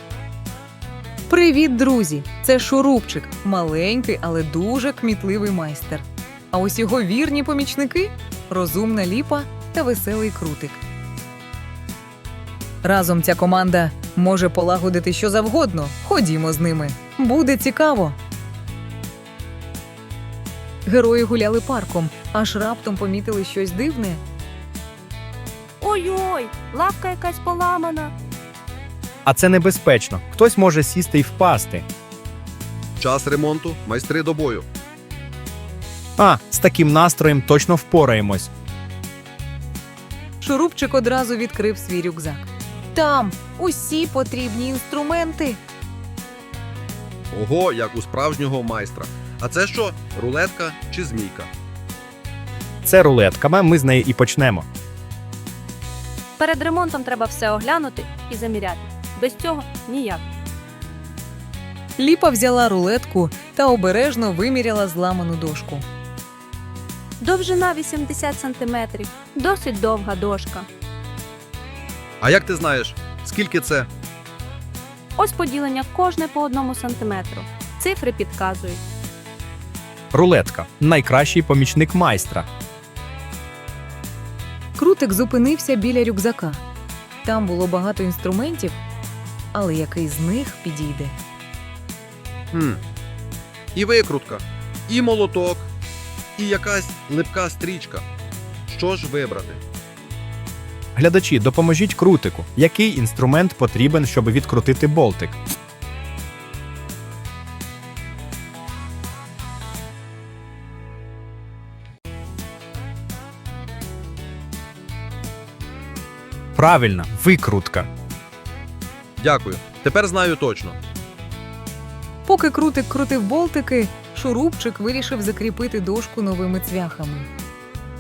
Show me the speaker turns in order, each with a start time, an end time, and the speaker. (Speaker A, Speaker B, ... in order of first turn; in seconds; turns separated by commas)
Speaker A: 1.3-10.8, Speaker A: 12.8-18.2, Speaker A: 20.9-24.2, Speaker B: 25.8-28.1, Speaker C: 29.2-31.9, Speaker D: 33.0-34.6, Speaker C: 36.2-38.5, Speaker A: 40.4-45.6, Speaker D: 47.3-51.5, Speaker C: 52.8-54.6, Speaker B: 56.4-60.2, Speaker A: 62.0-65.8, Speaker B: 67.2-70.7, Speaker D: 72.2-73.9, Speaker B: 75.2-78.8, Speaker C: 80.1-82.5, Speaker A: 84.8-86.6, Speaker A: 87.2-88.8, Speaker A: 89.5-91.2, Speaker D: 92.5-92.8, Speaker D: 93.7-95.7, Speaker D: 96.4-98.0, Speaker D: 98.7-99.6, Speaker C: 101.0-105.4, Speaker C: 116.5-117.9, Speaker D: 119.2-120.8, Speaker A: 122.2-127.3